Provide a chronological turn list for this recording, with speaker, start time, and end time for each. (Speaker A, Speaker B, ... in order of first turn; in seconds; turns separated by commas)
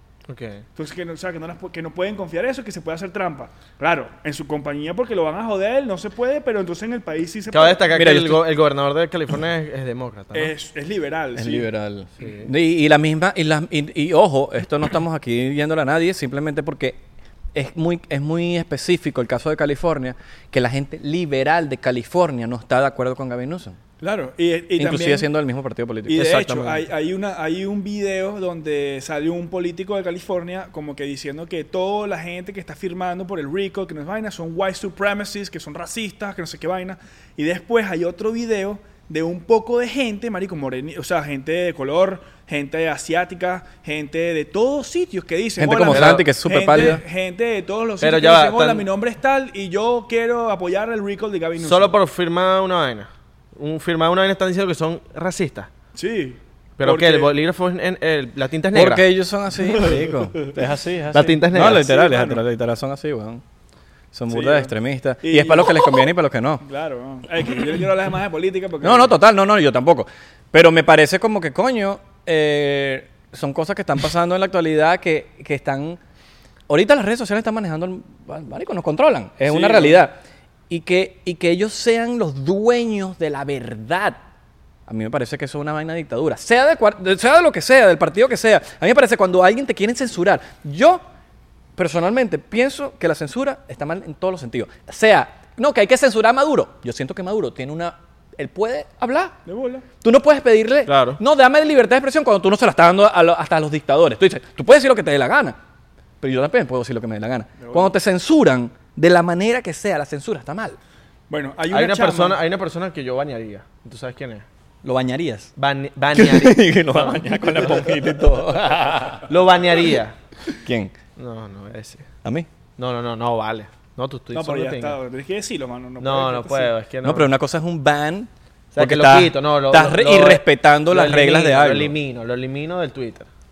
Speaker A: 0.3-0.6, Speaker B: 0.8-7.9, Speaker A: 7.5-10.5, Speaker C: 7.9-8.4, Speaker B: 10.3-11.7, Speaker C: 11.3-17.0, Speaker A: 12.2-12.5, Speaker C: 17.5-23.8, Speaker B: 24.0-25.3, Speaker C: 24.8-26.5, Speaker B: 26.1-51.9, Speaker A: 26.1-26.8, Speaker C: 45.6-47.0, Speaker A: 45.9-46.2, Speaker A: 48.0-48.9, Speaker A: 51.6-55.7, Speaker B: 55.9-57.3, Speaker A: 56.8-59.0, Speaker C: 58.7-63.4, Speaker A: 61.1-62.0, Speaker B: 61.6-62.4, Speaker C: 64.1-66.6, Speaker B: 64.3-66.0, Speaker B: 66.6-69.1, Speaker C: 68.8-76.0, Speaker C: 76.7-84.2, Speaker B: 79.5-80.0, Speaker C: 84.9-91.0, Speaker C: 91.8-99.3, Speaker B: 99.4-99.8, Speaker C: 100.0-105.6, Speaker A: 100.9-101.2, Speaker C: 106.2-110.8, Speaker B: 107.6-107.9, Speaker B: 111.3-112.4, Speaker A: 111.7-114.4, Speaker C: 114.8-115.5, Speaker A: 115.6-117.9, Speaker C: 116.1-119.3, Speaker A: 119.3-120.1, Speaker C: 120.6-120.9, Speaker A: 121.2-122.1, Speaker A: 122.8-125.0, Speaker B: 124.3-126.7, Speaker A: 126.0-127.3, Speaker C: 127.0-131.9, Speaker A: 128.7-133.3